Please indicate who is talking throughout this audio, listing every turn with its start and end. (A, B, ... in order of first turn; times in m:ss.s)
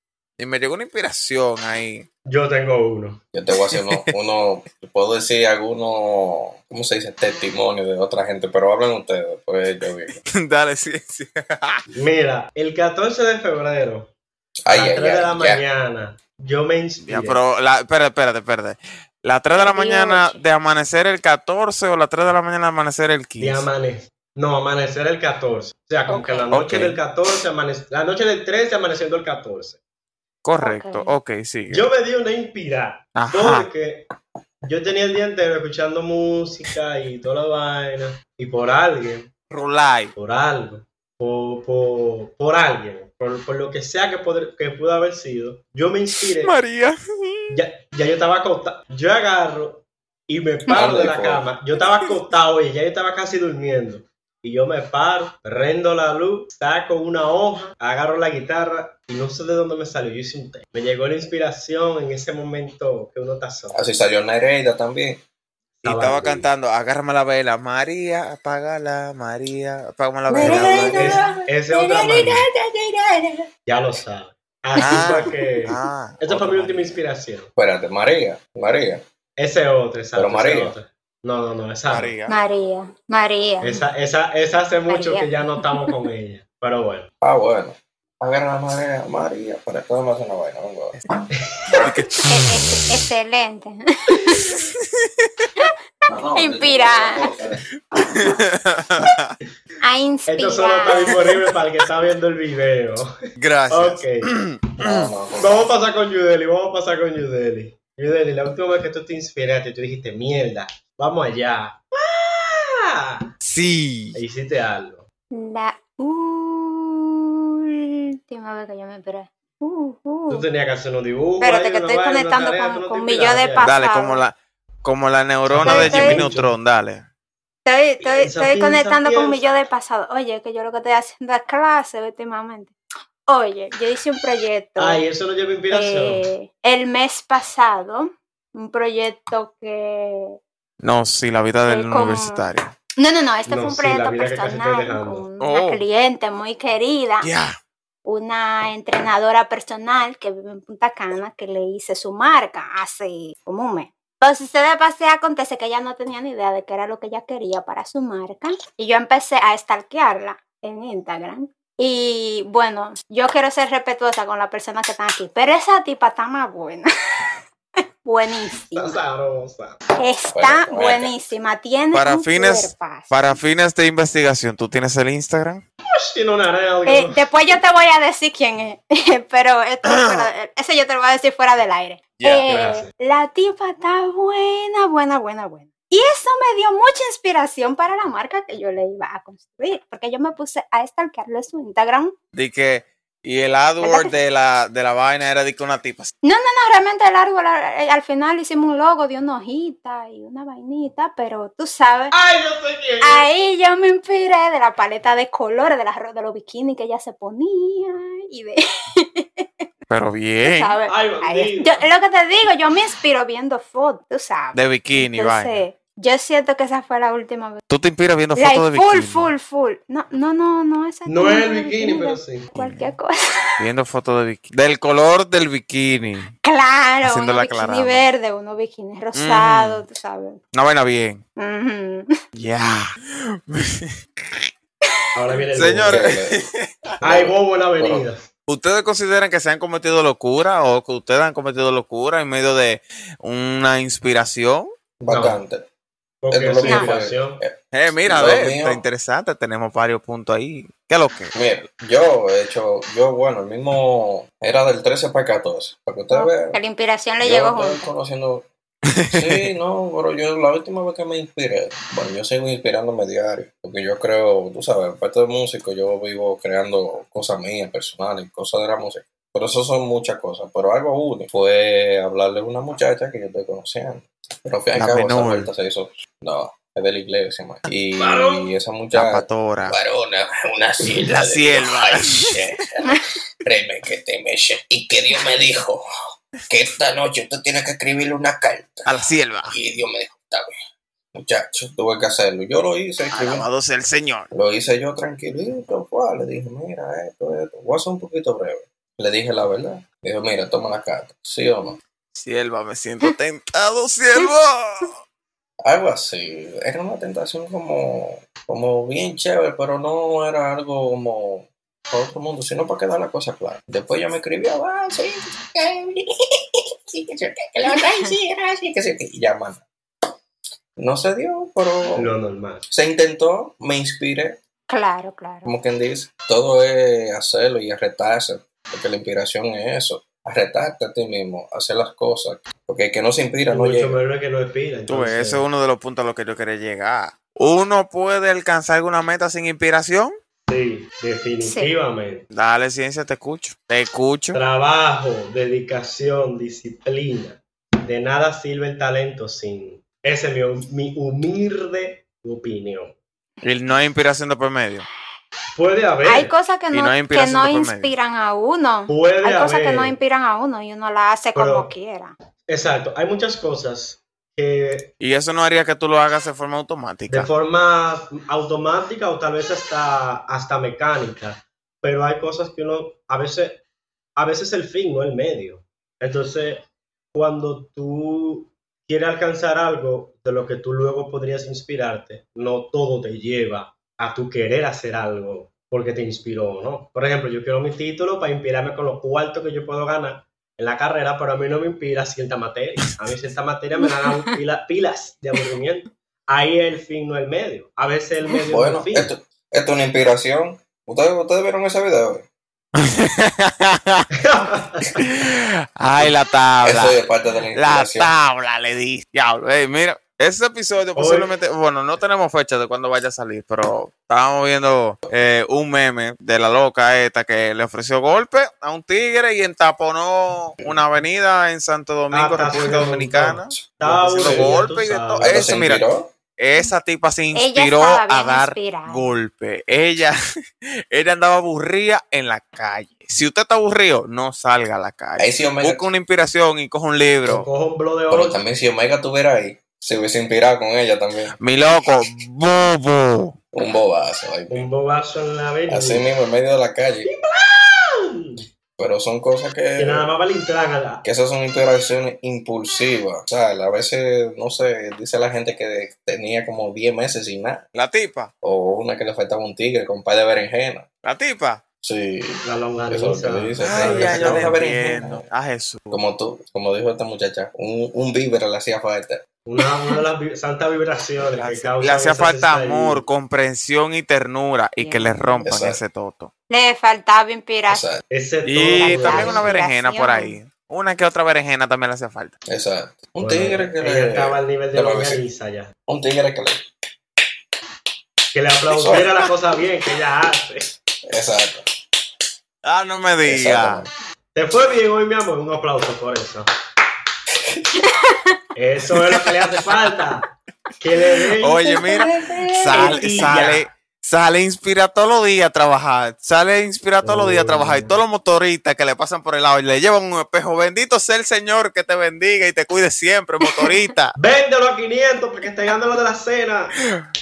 0:00.4-0:02.1 A
0:02.3-0:03.2 B
0:03.3-0:10.2 C
0:03.7-0:04.0 A
0:10.3-0:11.8 A
0:12.0-0:14.1 B
0:14.6-0:15.6 C
0:14.7-0:17.4 B
0:17.1-0:23.7 A
0:19.6-0:20.4 D
0:23.4-0:29.8 B
0:26.1-0:26.5 D
0:26.5-0:27.0 A
0:30.4-0:31.9 A
0:30.6-0:31.1 D
0:31.7-0:34.1 B
0:33.2-0:33.7 A
0:34.6-0:39.3 B
0:39.5-0:40.2 A
0:40.2-0:46.5 B
0:46.4-0:47.6 A
0:47.5-1:03.8 B
0:50.7-0:51.5 C
1:03.7-1:05.2 C
1:05.8-1:06.4 B
1:05.8-1:11.2 A
1:10.4-1:12.3 D
1:10.4-1:11.0 C
1:10.4-1:12.5 B
1:12.5-1:13.2 C
1:13.7-1:17.5 B
1:14.8-1:17.0 A
1:17.6-1:19.0 C
1:19.4-1:22.1 B
1:20.1-1:20.8 C
1:21.9-1:22.4 A
1:22.3-1:23.8 D
1:23.6-1:27.1 B
1:24.9-1:25.3 D
1:27.2-1:31.0 C
1:31.4-1:31.8 B
1:31.8-1:32.4 A
1:32.3-1:34.6 D
1:34.5-1:35.5 A
1:36.1-1:37.6 C
1:36.3-1:37.2 D
1:37.9-1:39.4 A
1:39.8-1:41.2 D
1:40.3-1:43.1 B
1:43.4-1:45.1 A
1:43.7-1:44.3 B
1:44.8-1:45.7 C
1:45.4-1:53.3 B
1:53.4-1:54.2 A
1:54.2-1:55.0 B
1:55.3-2:00.4 D
2:00.3-2:03.7 B
2:01.4-2:04.2 D
2:03.6-2:07.1 A
2:05.5-2:06.6 B
2:05.6-2:06.3 D
2:07.7-2:12.7 D
2:08.0-2:09.5 B
2:13.3-2:15.0 D
2:14.8-2:16.2 B
2:15.7-2:20.4 D
2:20.8-2:22.7 A
2:21.7-2:22.4 D
2:23.0-2:27.3 D
2:23.5-2:25.2 B
2:25.4-2:25.8 A
2:27.2-2:27.6 A
2:28.1-2:46.9 D
2:48.0-2:49.0 D
2:48.8-2:49.8 B
2:50.0-2:53.1 D
2:50.3-2:51.1 C
2:51.9-2:55.6 A
2:56.0-2:57.2 B
2:56.9-3:12.1 D
2:59.8-3:00.3 A
3:02.2-3:02.4 A
3:02.5-3:02.9 B
3:12.3-3:16.1 A
3:13.8-3:14.1 D
3:16.2-3:22.2 D
3:22.1-3:23.3 B
3:23.0-3:29.6 D
3:29.9-3:30.8 A
3:30.4-3:37.6 D
3:30.9-3:31.8 B
3:34.5-3:35.6 A
3:37.7-3:39.3 A
3:38.4-3:43.4 D
3:41.1-3:42.5 B
3:42.6-3:42.9 A
3:43.6-3:46.3 A
3:46.4-3:50.4 D
3:47.1-3:48.1 A
3:49.2-3:49.8 A
3:50.5-3:51.2 A
3:51.4-3:52.2 D
3:52.4-3:54.5 A
3:55.2-3:56.1 B
3:55.5-3:56.8 A
3:55.9-3:56.4 C
3:57.0-3:58.1 C
3:57.0-3:58.3 B
3:58.5-4:04.7 A
4:05.0-4:05.7 C
4:05.1-4:05.4 B
4:06.2-4:07.4 B
4:06.3-4:08.8 C
4:06.6-4:06.9 D
4:07.7-4:11.3 A
4:11.3-4:16.6 C
4:16.1-4:17.9 D
4:17.2-4:18.5 C
4:19.0-4:19.5 A
4:19.1-4:45.9 C
4:34.8-4:35.5 A
4:38.0-4:38.5 B
4:38.9-4:39.8 A
4:41.0-4:42.4 A
4:46.5-4:48.9 C
4:48.9-4:49.6 A
4:49.5-4:50.6 C
4:51.1-4:53.5 C
4:53.1-4:54.3 A
4:54.3-5:01.8 C
5:02.1-5:04.9 A
5:05.6-5:19.6 C
5:17.8-5:18.1 D
5:20.8-5:22.1 C
5:21.9-5:22.7 B
5:22.7-5:24.4 C
5:24.7-5:25.5 D
5:25.4-5:34.0 C
5:33.5-5:35.4 B
5:34.9-5:40.2 A
5:40.5-5:42.3 B
5:41.4-5:41.7 D
5:42.3-5:44.4 A
5:44.3-5:53.0 B
5:53.4-5:54.9 A
5:55.6-5:56.3 B
5:56.0-6:02.1 D
5:56.7-5:57.9 A
5:58.9-6:00.0 B
6:01.4-6:01.7 B
6:02.5-6:04.9 B
6:05.0-6:07.3 A
6:07.1-6:13.6 B
6:14.2-6:39.1 B
6:38.5-6:42.3 C
6:42.8-6:44.1 A
6:44.2-6:45.0 B
6:45.0-6:47.0 A
6:46.6-6:48.1 C
6:47.6-7:05.8 A
6:51.0-6:51.3 B
7:02.1-7:05.6 B
7:04.2-7:04.5 C
7:05.2-7:06.1 C
7:06.4-7:17.5 A
7:07.4-7:09.1 D
7:15.2-7:15.9 C
7:17.2-7:18.4 B
7:18.1-7:21.4 C
7:21.4-7:23.4 A
7:23.5-7:24.7 C
7:24.5-7:26.0 B
7:25.7-7:27.1 C
7:27.0-7:28.4 B
7:28.8-7:30.1 C
7:29.8-7:31.0 B
7:31.0-7:37.6 C
7:37.7-7:38.3 A
7:38.4-7:40.9 C
7:41.0-7:41.6 A
7:41.8-7:45.2 C
7:42.4-7:44.6 B
7:43.6-7:46.0 A
7:45.9-7:49.2 C
7:49.4-7:53.0 B
7:51.4-7:56.3 A
7:54.8-7:55.4 D
7:55.4-7:55.8 C
7:56.5-7:57.9 D
7:57.7-7:58.0 C
7:58.1-7:59.5 B
7:58.4-8:02.3 A
7:58.8-8:00.4 D
8:02.5-8:05.2 C
8:03.2-8:05.7 B
8:05.9-8:06.7 C
8:08.3-8:10.8 B
8:08.8-8:09.1 C
8:08.8-8:09.2 A
8:11.1-8:11.7 C
8:12.6-8:13.8 A
8:13.3-8:13.9 C
8:14.4-8:16.5 B
8:17.3-8:17.7 C
8:17.8-8:18.4 D
8:18.6-8:21.8 B
8:21.4-8:34.2 A
8:22.0-8:23.3 C
8:22.7-8:23.7 B
8:27.0-8:28.0 B
8:33.4-8:33.7 D
8:34.2-8:36.8 B